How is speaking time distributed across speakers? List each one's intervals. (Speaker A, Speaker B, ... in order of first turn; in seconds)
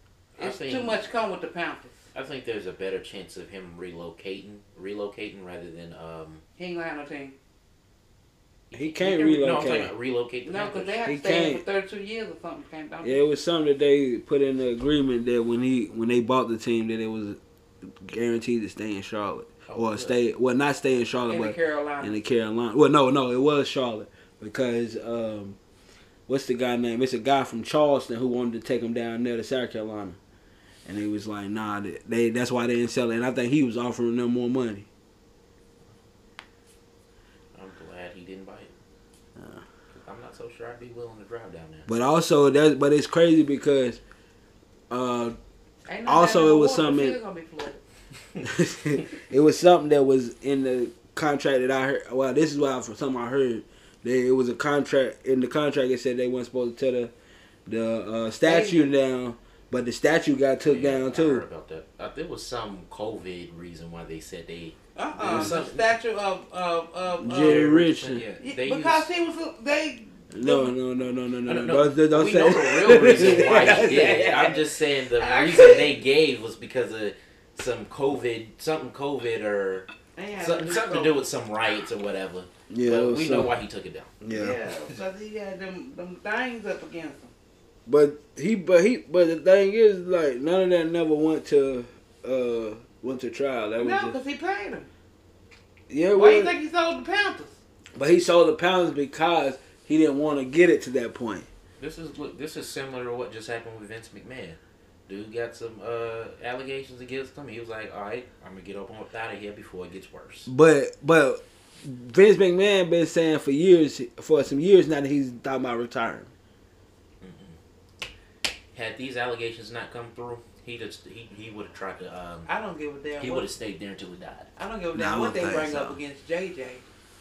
Speaker A: 0.4-1.0, 2.1-6.4, 8.7-11.0, 19.7-20.1, 37.5-38.7, 39.9-41.9, 60.6-65.9, 67.3-69.1, 71.5-84.2, 101.8-110.5, 117.2-117.6, 118.7-122.5, 123.2-124.5
Speaker B: 0.4-2.0, 6.6-7.3, 10.4-13.2, 21.3-22.2, 45.9-47.8, 58.4-58.9, 65.0-67.7, 68.4-70.7, 73.1-74.6, 75.2-76.0, 80.1-81.2, 84.3-87.3, 93.8-94.9, 96.1-97.6, 122.5-123.5, 124.5-126.8
Speaker C: 8.7-9.9, 11.0-11.6, 13.0-25.6, 26.3-30.2, 30.8-34.9, 39.4-39.6, 41.9-44.0, 44.9-45.4, 46.0-47.2, 48.4-57.1, 57.6-61.4, 65.2-65.5, 67.2-68.2, 70.3-74.3, 82.7-83.5, 84.2-84.6, 87.8-94.2, 95.9-96.5, 97.9-101.5, 110.5-116.3, 124.9-126.0